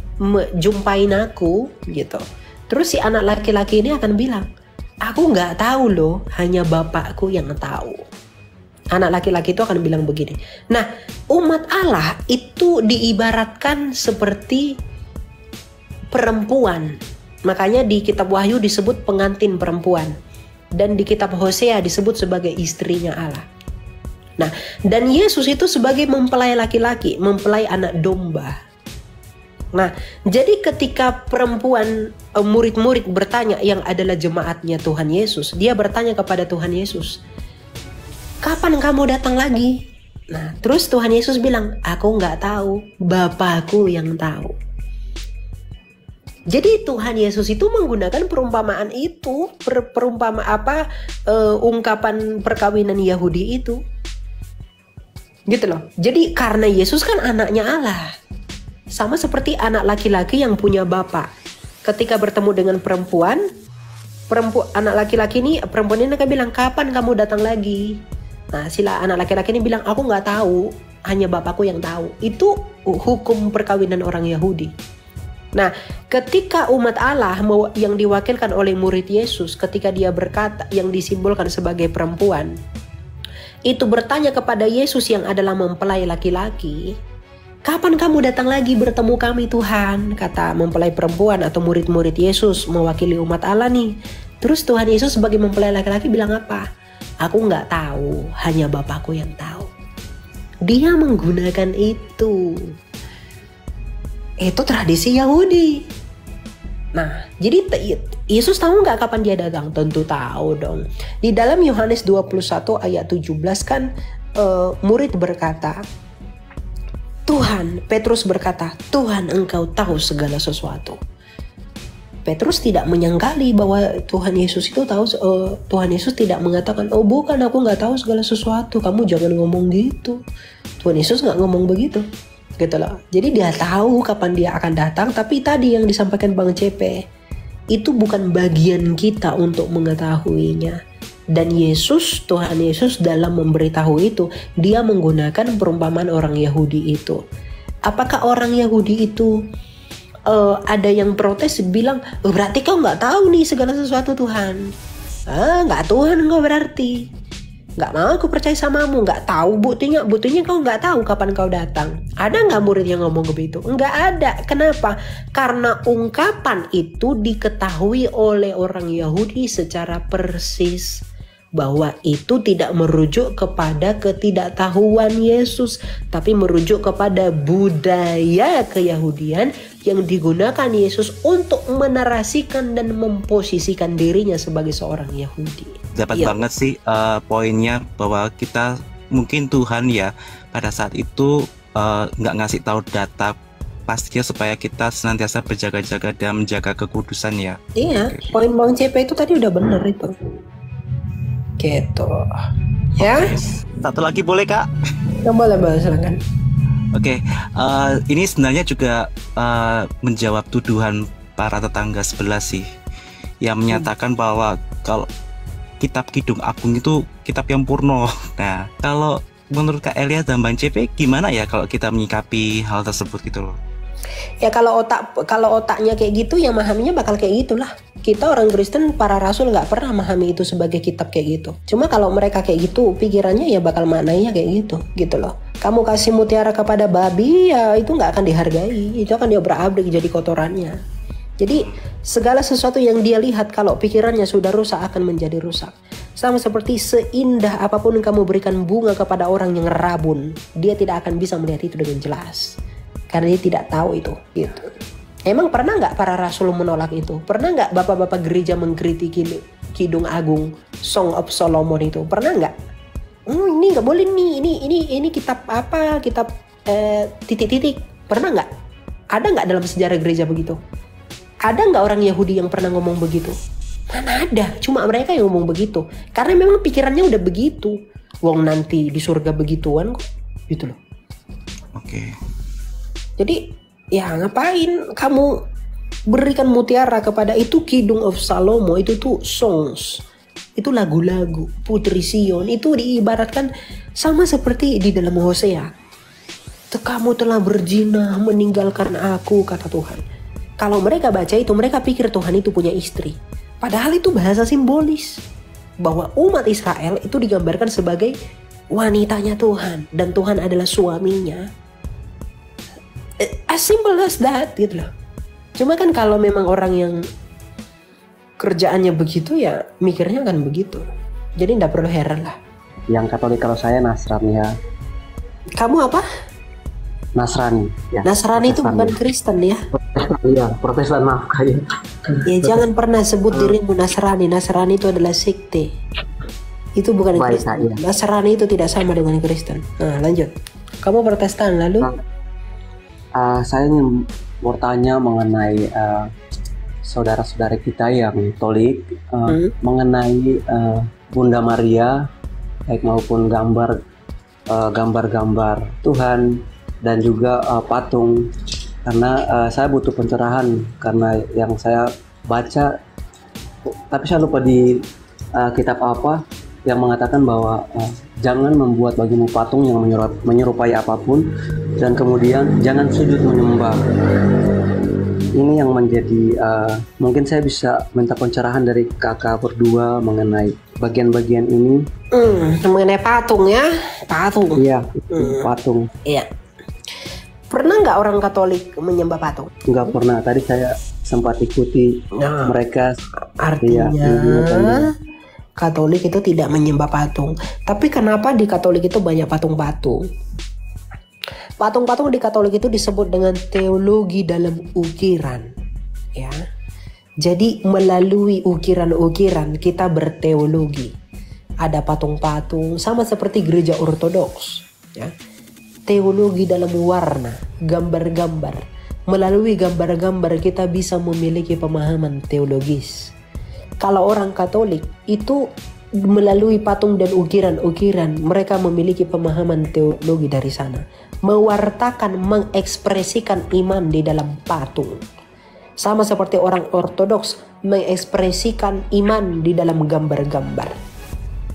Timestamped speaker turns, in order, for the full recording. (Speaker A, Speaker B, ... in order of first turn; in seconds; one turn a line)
Speaker A: 0.2-4.5
Speaker A: 5.0-8.0
Speaker A: 8.9-14.7
Speaker A: 16.1-16.9
Speaker A: 17.5-20.1
Speaker A: 20.8-23.4
Speaker A: 24.4-28.6
Speaker A: 29.8-37.2
Speaker A: 38.4-39.8
Speaker A: 40.3-44.5
Speaker A: 46.5-53.8
Speaker A: 55.5-58.1
Speaker A: 58.9-61.3
Speaker A: 61.9-63.4
Speaker A: 64.3-68.0
Speaker A: 68.5-74.7
Speaker A: 75.6-82.5
Speaker A: 83.7-86.9
Speaker A: 87.7-93.9
Speaker A: 94.4-96.7
Speaker A: 97.2-99.7
Speaker A: 100.7-102.7
Speaker A: 104.4-105.8
Speaker A: 107.0-113.9
Speaker A: 114.4-115.8
Speaker A: 117.3-121.0
Speaker A: 122.3-130.2
Speaker A: 130.8-132.0
Speaker A: 132.6-137.0
Speaker A: 137.7-140.8
Speaker A: 141.3-147.2
Speaker A: 147.9-149.3
Speaker A: 150.3-154.7
Speaker A: 155.3-157.0
Speaker A: 157.8-171.0
Speaker A: 171.6-186.4
Speaker B: 186.0-193.4
Speaker B: 193.9-198.3
Speaker A: 197.8-200.1
Speaker A: 201.6-202.3
Speaker A: 203.0-203.4
Speaker B: 203.8-204.7
Speaker A: 205.2-206.2
Speaker B: 206.9-212.7
Speaker B: 213.4-215.1
Speaker B: 215.8-223.6
Speaker A: 224.4-240.8
Speaker A: 241.4-252.6
Speaker A: 253.1-254.7
Speaker A: 255.3-262.5
Speaker A: 263.3-268.5
Speaker A: 269.1-270.6
Speaker A: 271.5-273.4
Speaker A: 273.9-280.8
Speaker B: 281.8-282.1
Speaker A: 283.9-285.4
Speaker A: 286.1-290.0
Speaker A: 290.6-293.5
Speaker A: 294.0-295.7
Speaker A: 296.7-300.0
Speaker A: 300.6-305.2
Speaker A: 305.8-308.1
Speaker A: 308.7-311.5
Speaker A: 313.2-314.9
Speaker A: 315.6-317.0
Speaker A: 318.4-320.8
Speaker A: 321.4-322.4
Speaker C: 322.9-324.5
Speaker A: 325.6-326.0
Speaker C: 327.2-328.9
Speaker A: 328.1-329.6
Speaker C: 329.9-332.6
Speaker A: 332.3-335.7
Speaker A: 336.8-341.9
Speaker C: 337.1-337.8
Speaker C: 343.2-346.1
Speaker C: 346.8-352.0
Speaker C: 352.7-353.8
Speaker C: 354.5-356.2
Speaker C: 356.8-358.3
Speaker C: 358.9-362.7
Speaker C: 363.9-364.8
Speaker C: 365.4-371.3
Speaker C: 371.8-373.8
Speaker C: 375.4-381.8
Speaker A: 382.1-384.6
Speaker C: 384.6-385.9
Speaker A: 385.1-385.5
Speaker A: 387.5-389.5
Speaker C: 389.7-392.9
Speaker A: 392.2-392.5
Speaker A: 393.4-394.9
Speaker C: 393.6-394.9
Speaker A: 395.6-400.0
Speaker A: 401.6-405.5
Speaker A: 406.2-406.4
Speaker A: 407.2-410.9
Speaker A: 411.6-415.1
Speaker A: 415.9-423.1
Speaker A: 423.8-425.4
Speaker A: 426.1-435.0
Speaker A: 435.8-440.8